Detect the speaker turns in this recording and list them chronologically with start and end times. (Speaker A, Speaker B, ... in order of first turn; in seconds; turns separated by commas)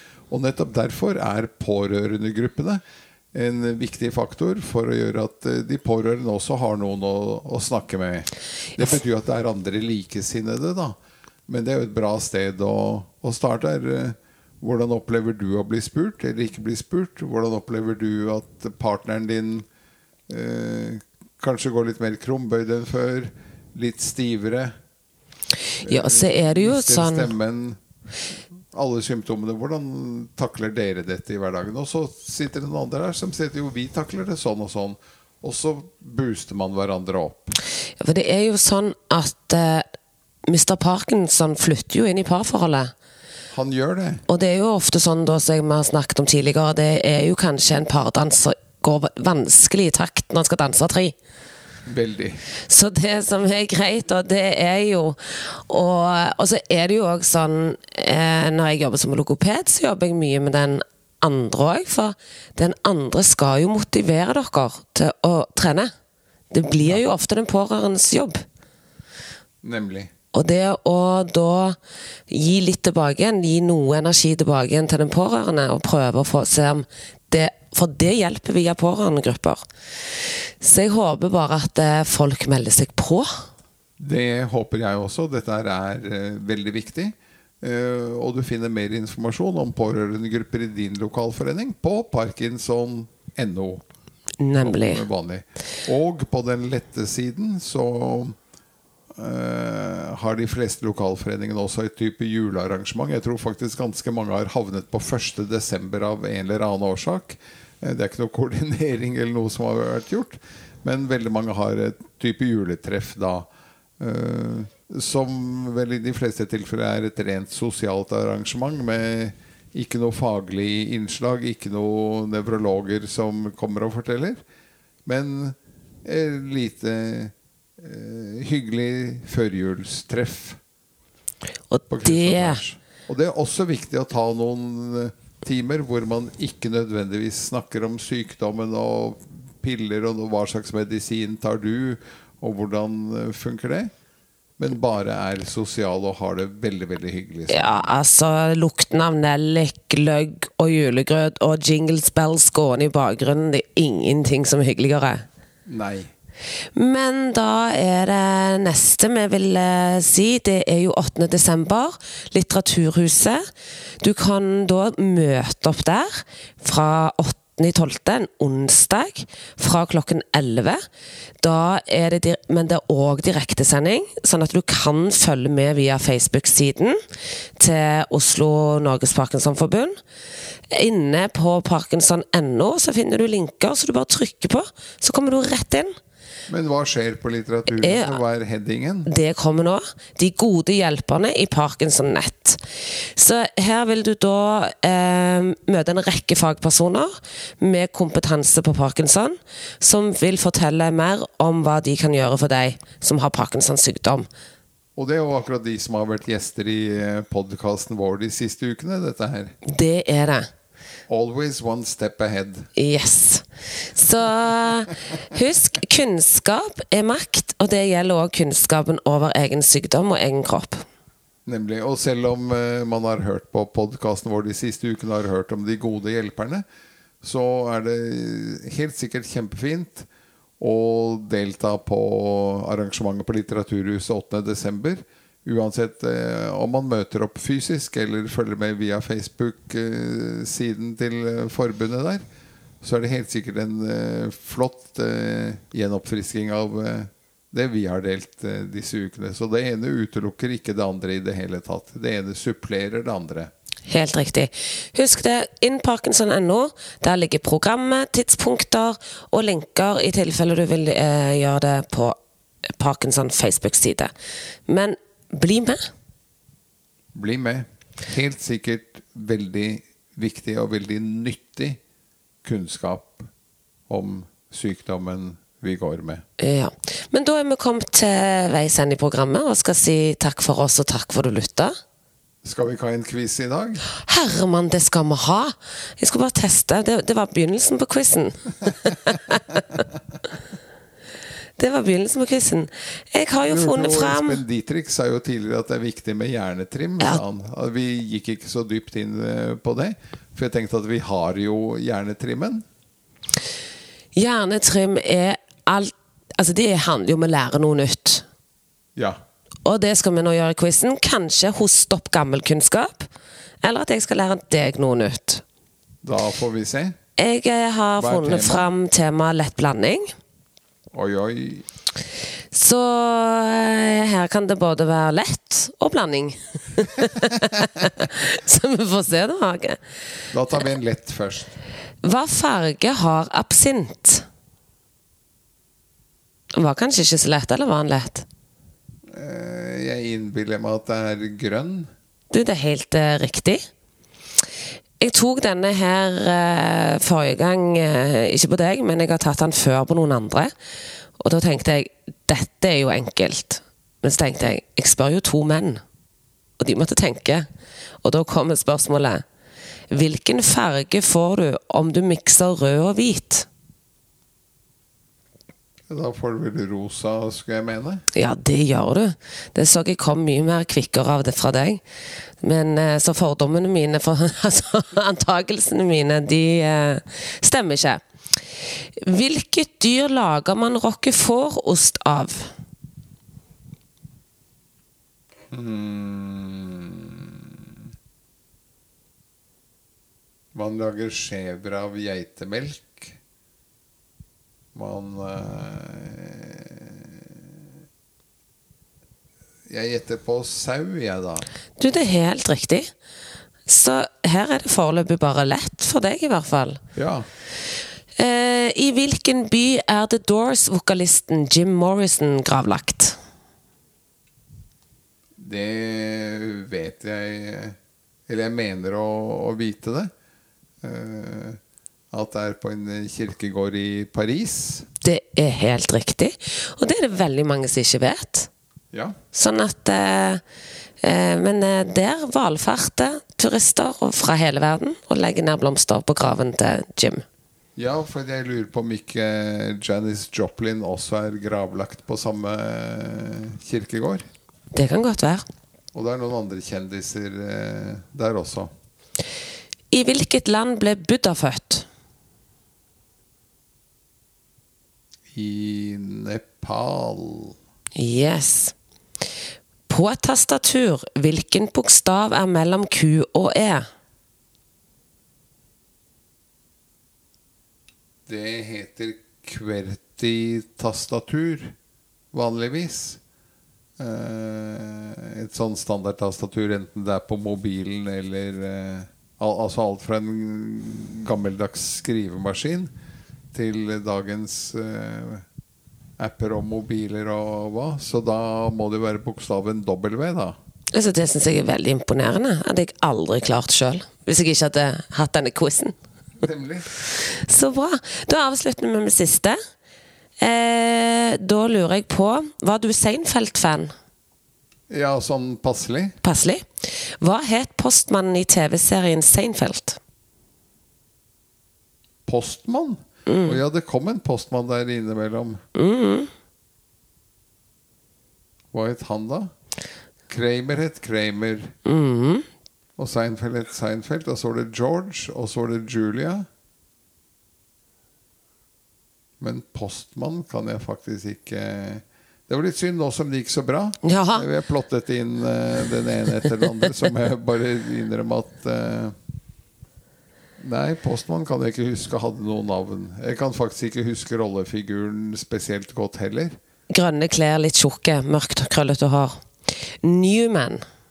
Speaker A: 0.3-2.8, Speaker A: 3.3-10.9, Speaker A: 11.5-19.6, Speaker A: 20.3-24.7, Speaker A: 25.8-27.8, Speaker B: 25.9-27.3, Speaker A: 28.7-37.5, Speaker B: 38.0-39.9, Speaker B: 40.5-42.9, Speaker A: 43.5-44.2, Speaker B: 44.3-51.1, Speaker A: 51.9-52.4, Speaker B: 52.7-65.9, Speaker B: 66.5-68.4, Speaker A: 69.6-70.1, Speaker B: 70.3-71.8, Speaker B: 72.3-79.6, Speaker B: 80.6-83.4, Speaker A: 84.0-93.8, Speaker B: 94.4-95.0, Speaker A: 94.6-98.4, Speaker A: 99.2-113.5, Speaker A: 114.0-124.4, Speaker A: 125.0-130.6, Speaker B: 131.7-132.6, Speaker A: 131.9-143.9, Speaker A: 144.6-147.9, Speaker B: 147.5-155.2, Speaker A: 155.7-156.1, Speaker B: 156.7-163.4, Speaker B: 164.0-170.8, Speaker B: 171.4-177.0, Speaker B: 177.6-180.0, Speaker B: 180.7-185.9, Speaker A: 186.5-189.1, Speaker B: 187.8-188.2, Speaker B: 189.1-204.3, Speaker A: 204.9-209.5, Speaker B: 209.6-210.5, Speaker A: 211.1-212.7, Speaker B: 212.8-220.8, Speaker A: 221.4-226.6, Speaker A: 227.2-230.1, Speaker A: 230.6-242.2, Speaker A: 242.8-253.5, Speaker B: 253.9-262.2, Speaker B: 262.7-264.1, Speaker B: 264.7-265.9, Speaker A: 267.1-271.8, Speaker A: 272.4-273.3, Speaker A: 273.9-276.2, Speaker B: 276.4-281.7, Speaker A: 282.4-283.8, Speaker B: 284.0-289.8, Speaker B: 291.6-294.4, Speaker A: 293.4-302.6, Speaker B: 304.1-308.2, Speaker A: 308.9-309.2, Speaker B: 309.6-313.1, Speaker B: 313.6-315.4, Speaker A: 316.0-317.0, Speaker B: 317.2-320.1, Speaker A: 318.0-318.6, Speaker A: 320.9-321.6, Speaker B: 322.5-329.8, Speaker A: 330.3-331.5, Speaker B: 332.0-334.2, Speaker B: 336.5-338.2, Speaker A: 339.1-341.9, Speaker B: 342.3-343.6, Speaker B: 345.0-350.5, Speaker B: 351.2-355.8, Speaker B: 356.6-357.5, Speaker B: 358.0-359.2, Speaker B: 359.9-363.5, Speaker A: 365.9-368.0, Speaker B: 368.1-371.8, Speaker B: 372.4-378.0, Speaker B: 379.0-382.5, Speaker A: 385.5-387.7, Speaker A: 390.5-393.1, Speaker A: 394.7-397.4, Speaker A: 399.7-401.4, Speaker B: 401.8-402.9, Speaker B: 403.7-406.8, Speaker A: 406.9-407.3, Speaker B: 408.2-413.2, Speaker A: 415.4-417.8, Speaker A: 418.3-420.1, Speaker A: 420.8-421.6, Speaker A: 422.1-424.9, Speaker B: 425.0-428.5, Speaker B: 429.3-430.4, Speaker B: 431.0-437.2, Speaker A: 437.8-444.2, Speaker B: 444.7-445.4, Speaker A: 445.9-448.7, Speaker B: 449.9-451.9, Speaker A: 455.3-457.6, Speaker B: 457.9-458.7, Speaker B: 459.9-463.9, Speaker A: 468.3-471.7, Speaker A: 472.3-473.2, Speaker A: 474.0-482.9, Speaker A: 483.5-485.4, Speaker A: 486.2-490.6, Speaker B: 490.9-495.9, Speaker A: 496.4-496.9, Speaker B: 497.1-499.6, Speaker B: 500.4-503.9, Speaker A: 504.9-506.2, Speaker B: 506.2-510.0, Speaker A: 512.3-515.6, Speaker B: 513.2-513.6, Speaker B: 515.7-516.3, Speaker A: 518.7-519.5, Speaker A: 520.3-521.7, Speaker B: 521.8-522.5, Speaker A: 523.0-526.5, Speaker A: 529.4-539.1, Speaker B: 534.0-534.5, Speaker A: 540.6-546.6, Speaker B: 546.9-550.8